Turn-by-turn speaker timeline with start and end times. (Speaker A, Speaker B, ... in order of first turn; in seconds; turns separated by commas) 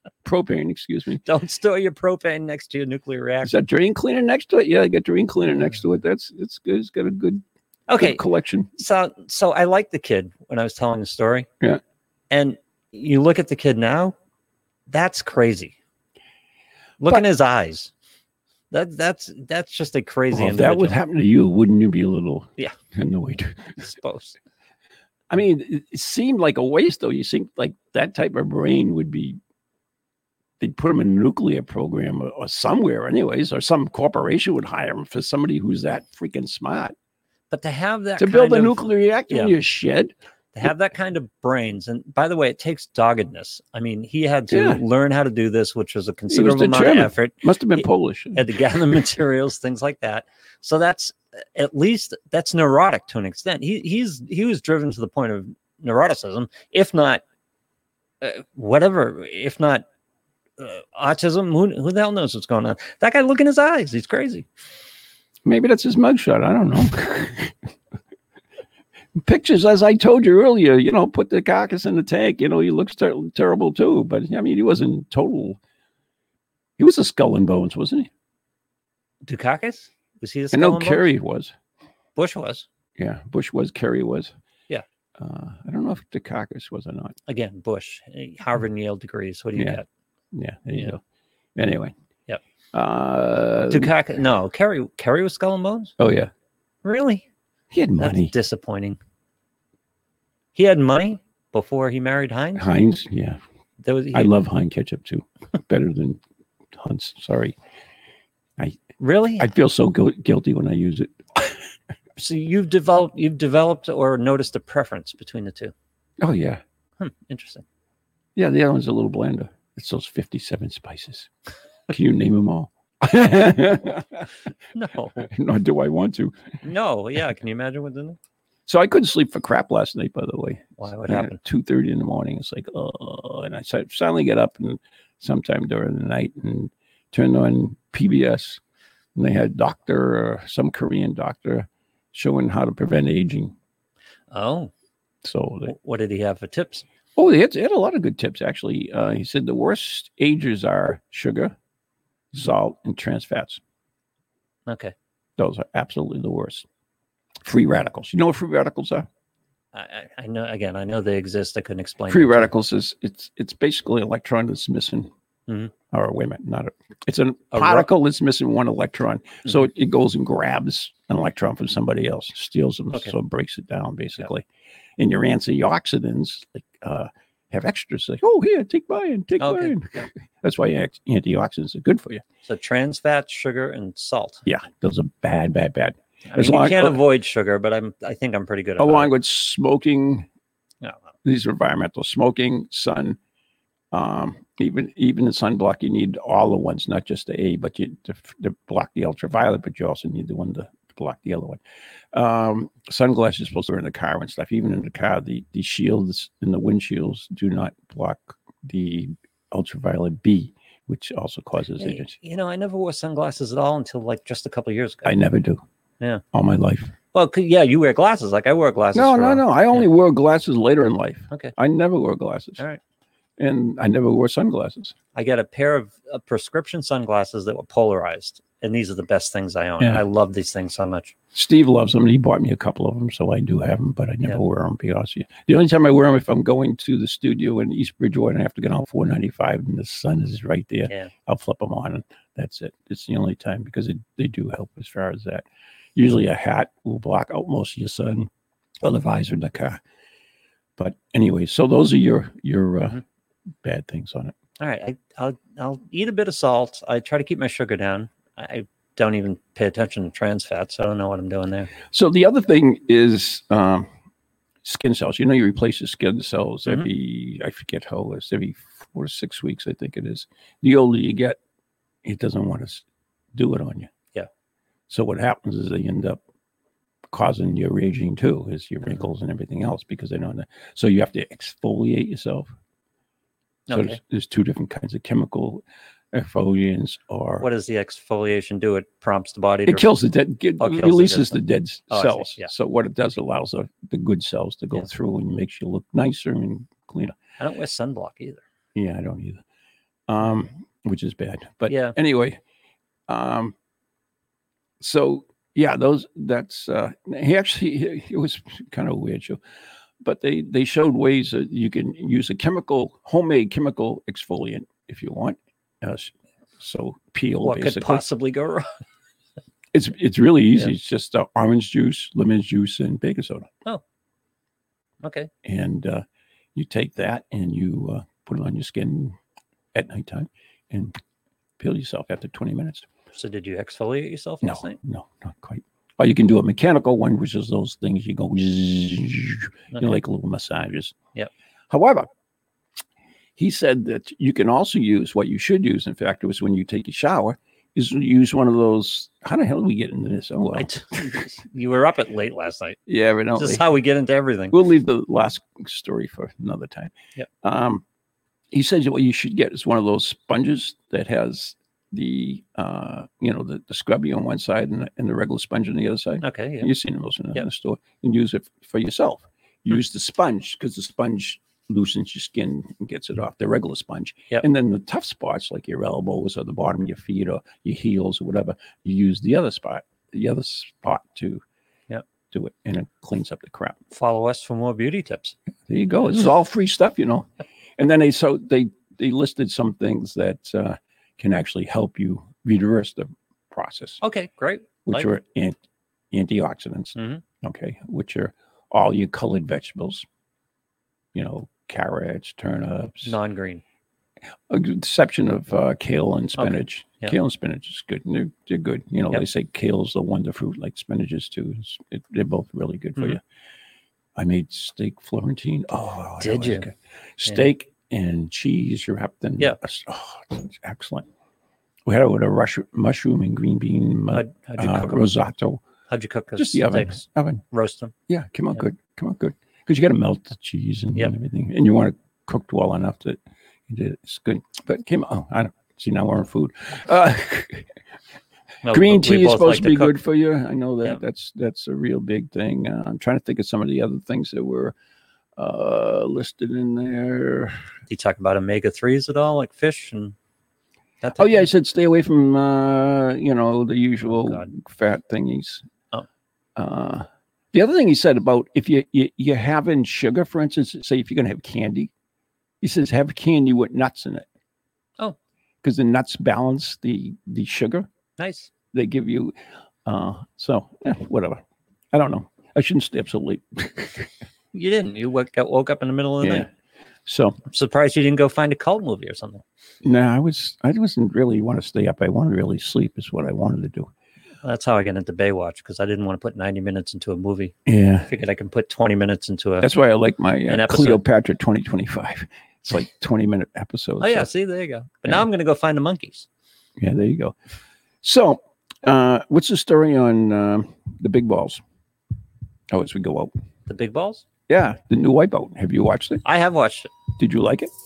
Speaker A: 0.2-1.2, Speaker B: 1.2-3.5, Speaker A: 3.4-7.4, Speaker B: 7.9-8.2, Speaker A: 8.0-8.7, Speaker B: 8.8-11.5, Speaker B: 12.3-14.1, Speaker B: 14.9-15.7, Speaker B: 17.0-17.9, Speaker B: 18.7-21.0, Speaker A: 20.3-23.8, Speaker B: 23.8-24.4, Speaker A: 25.3-29.4, Speaker A: 30.6-36.9, Speaker B: 37.5-39.5, Speaker A: 38.2-40.1, Speaker B: 40.5-47.4, Speaker A: 44.5-44.8, Speaker A: 46.3-48.4, Speaker B: 48.3-57.2, Speaker B: 58.2-59.8, Speaker B: 60.6-64.5, Speaker A: 65.5-67.5, Speaker A: 69.2-75.6, Speaker A: 76.8-78.1, Speaker B: 79.2-81.1, Speaker A: 80.5-81.5, Speaker B: 82.2-82.7, Speaker A: 83.0-84.3, Speaker A: 85.2-87.1, Speaker B: 87.3-89.9, Speaker A: 90.3-91.0, Speaker A: 91.5-91.9, Speaker A: 92.7-93.9, Speaker B: 93.7-96.0, Speaker A: 96.0-96.3, Speaker B: 96.8-97.2, Speaker A: 97.7-98.3, Speaker B: 98.0-99.0, Speaker B: 100.5-102.7, Speaker A: 102.5-103.4, Speaker B: 103.8-104.3, Speaker A: 104.1-106.2, Speaker A: 106.8-107.5, Speaker B: 109.0-109.5, Speaker A: 109.4-111.5, Speaker B: 112.2-115.7, Speaker A: 116.2-116.6, Speaker B: 117.0-117.6, Speaker A: 118.4-121.3, Speaker A: 121.9-124.3, Speaker B: 124.7-125.3, Speaker A: 125.2-126.4, Speaker B: 126.6-128.2, Speaker A: 128.7-138.6, Speaker B: 130.8-131.4, Speaker A: 139.2-143.5, Speaker B: 144.3-144.7, Speaker A: 145.2-145.7, Speaker B: 145.7-146.8, Speaker A: 147.2-151.5, Speaker A: 152.3-153.6, Speaker B: 154.7-154.9, Speaker A: 155.4-156.7, Speaker A: 157.4-159.1, Speaker B: 159.7-162.5, Speaker A: 162.1-165.1, Speaker A: 165.9-174.4, Speaker B: 167.5-167.9, Speaker A: 175.0-182.2, Speaker B: 179.4-180.0, Speaker B: 182.4-184.4, Speaker A: 184.4-187.0, Speaker B: 186.3-189.1, Speaker A: 188.8-190.3, Speaker A: 191.2-193.2, Speaker A: 193.9-201.6, Speaker A: 202.1-212.1, Speaker B: 211.8-215.1, Speaker A: 215.1-215.6, Speaker A: 216.3-216.9, Speaker B: 217.1-219.8, Speaker A: 218.9-222.6, Speaker A: 223.4-224.9, Speaker B: 225.1-231.1, Speaker A: 231.3-248.3, Speaker A: 248.8-249.8, Speaker A: 250.8-253.0, Speaker A: 253.6-254.3, Speaker B: 254.6-261.7, Speaker A: 261.9-263.9, Speaker A: 264.6-271.4, Speaker A: 272.0-272.8, Speaker A: 273.3-273.9, Speaker A: 274.9-276.2, Speaker A: 277.1-282.5, Speaker B: 283.7-284.0, Speaker A: 283.7-287.4, Speaker B: 287.4-289.9, Speaker A: 289.7-297.2, Speaker B: 290.6-291.4, Speaker B: 291.9-292.5, Speaker B: 297.4-298.4, Speaker A: 298.7-299.4, Speaker A: 300.1-302.4, Speaker B: 301.7-301.9, Speaker A: 303.1-303.5, Speaker A: 304.8-309.4, Speaker A: 310.0-318.1, Speaker B: 317.4-318.7, Speaker A: 319.7-323.5, Speaker B: 325.0-325.3, Speaker A: 325.4-326.0, Speaker A: 326.6-329.2, Speaker A: 329.7-330.9, Speaker A: 331.6-332.8, Speaker B: 333.1-334.8, Speaker A: 334.4-340.9, Speaker A: 341.7-342.1, Speaker A: 343.4-351.1, Speaker B: 350.6-352.8, Speaker A: 352.9-353.6, Speaker B: 353.4-354.6, Speaker A: 354.5-356.9, Speaker A: 357.4-357.8, Speaker A: 358.5-381.4, Speaker B: 366.2-366.7, Speaker A: 382.3-383.8, Speaker B: 383.9-385.3, Speaker A: 385.7-387.3, Speaker A: 387.8-394.0, Speaker B: 394.0-395.1, Speaker A: 394.9-395.6, Speaker A: 396.1-400.1, Speaker B: 396.9-397.2, Speaker A: 401.1-403.1, Speaker B: 403.1-403.6, Speaker A: 404.5-413.2, Speaker B: 406.4-407.1, Speaker A: 414.2-421.1, Speaker B: 416.2-416.7, Speaker A: 421.9-425.6, Speaker B: 424.1-425.0, Speaker B: 425.9-427.9, Speaker A: 426.4-427.4, Speaker A: 428.1-437.7, Speaker B: 438.6-439.9, Speaker A: 438.7-444.7, Speaker A: 445.4-447.6, Speaker B: 447.9-450.1, Speaker B: 451.0-451.4, Speaker A: 451.2-455.6, Speaker B: 454.1-454.4, Speaker A: 456.6-461.9, Speaker A: 462.6-464.3, Speaker A: 465.6-467.9, Speaker B: 468.2-468.5, Speaker A: 468.7-469.3, Speaker A: 469.9-471.4, Speaker A: 471.9-474.1, Speaker B: 474.5-476.5, Speaker A: 476.2-476.5, Speaker A: 477.1-477.4, Speaker B: 477.4-479.4, Speaker A: 479.8-483.9, Speaker B: 484.4-487.5, Speaker A: 487.7-488.1, Speaker B: 488.1-489.7, Speaker A: 489.6-494.3, Speaker B: 490.5-491.0, Speaker B: 494.0-496.3, Speaker A: 496.8-497.3, Speaker A: 498.0-501.6, Speaker A: 502.7-503.3, Speaker B: 503.7-504.2, Speaker A: 504.5-506.2, Speaker B: 506.2-506.9, Speaker A: 507.2-507.7